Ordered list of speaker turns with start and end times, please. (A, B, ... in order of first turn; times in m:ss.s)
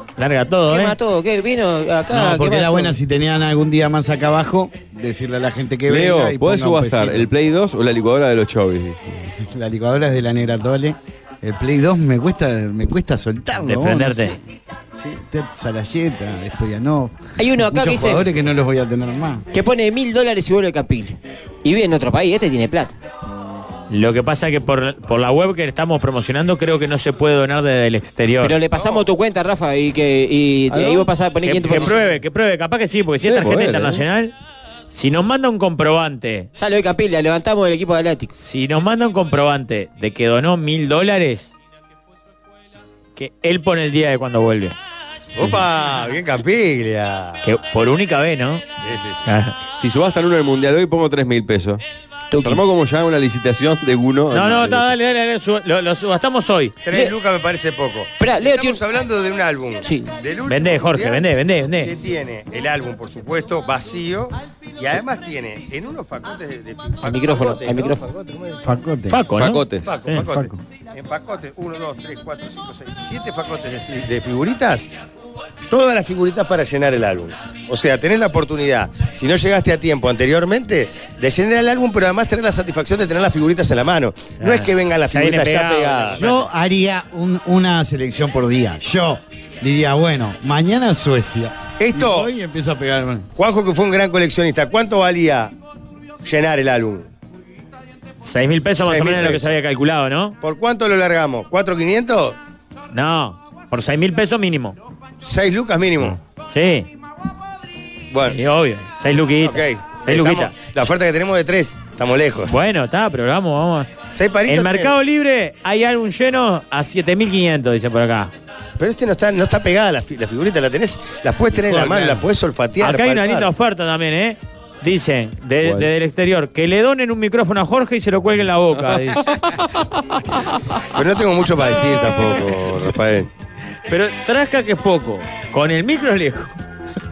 0:00.2-0:01.0 A
0:00.7-0:03.0 B
0:02.1-0:07.3 C
0:05.9-0:09.3 D
0:09.4-0:14.4 C
0:13.6-0:14.4 A
0:15.0-0:19.5 C
0:17.4-0:18.3 B
0:19.5-0:23.0 B
0:23.9-0:28.6 A
0:28.4-0:32.1 B
0:28.7-0:29.1 E
0:30.7-0:31.1 D
0:31.4-0:34.4 A
0:33.2-0:34.0 D
0:34.9-0:36.5 A
0:36.6-0:38.3 B
0:38.4-0:41.5 A
0:43.2-0:44.8 A
0:45.4-0:47.4 E
0:47.4-0:48.6 A
0:48.8-0:49.2 E
0:49.3-0:49.6 A
0:49.8-0:51.8 D
0:52.3-0:52.6 B
0:52.4-0:54.9 D
0:54.3-0:56.8 A
0:56.8-1:08.6 E
0:58.2-0:58.8 B
0:59.8-1:00.1 B
1:00.5-1:01.9 A
1:07.0-1:08.0 B
1:08.6-1:09.2 C
1:09.1-1:10.5 A
1:09.3-1:09.9 D
1:09.8-1:14.9 E
1:15.7-1:26.4 E
1:24.4-1:26.2 A
1:26.2-1:33.3 C
1:31.8-1:32.3 E
1:33.4-1:35.5 E
1:36.2-1:37.1 E
1:38.2-1:40.4 A
1:38.8-1:39.5 E
1:40.4-1:42.4 E
1:42.9-1:44.8 A
1:45.2-1:46.2 E
1:46.4-1:46.9 A
1:48.1-1:48.4 E
1:48.3-1:50.6 A
1:49.4-1:52.5 E
1:52.5-1:53.9 A
1:54.1-1:55.0 E
1:54.5-1:58.3 A
1:58.8-2:03.5 E
2:01.6-2:02.2 C
2:02.8-2:09.3 A
2:11.0-2:13.3 E
2:13.9-2:16.6 A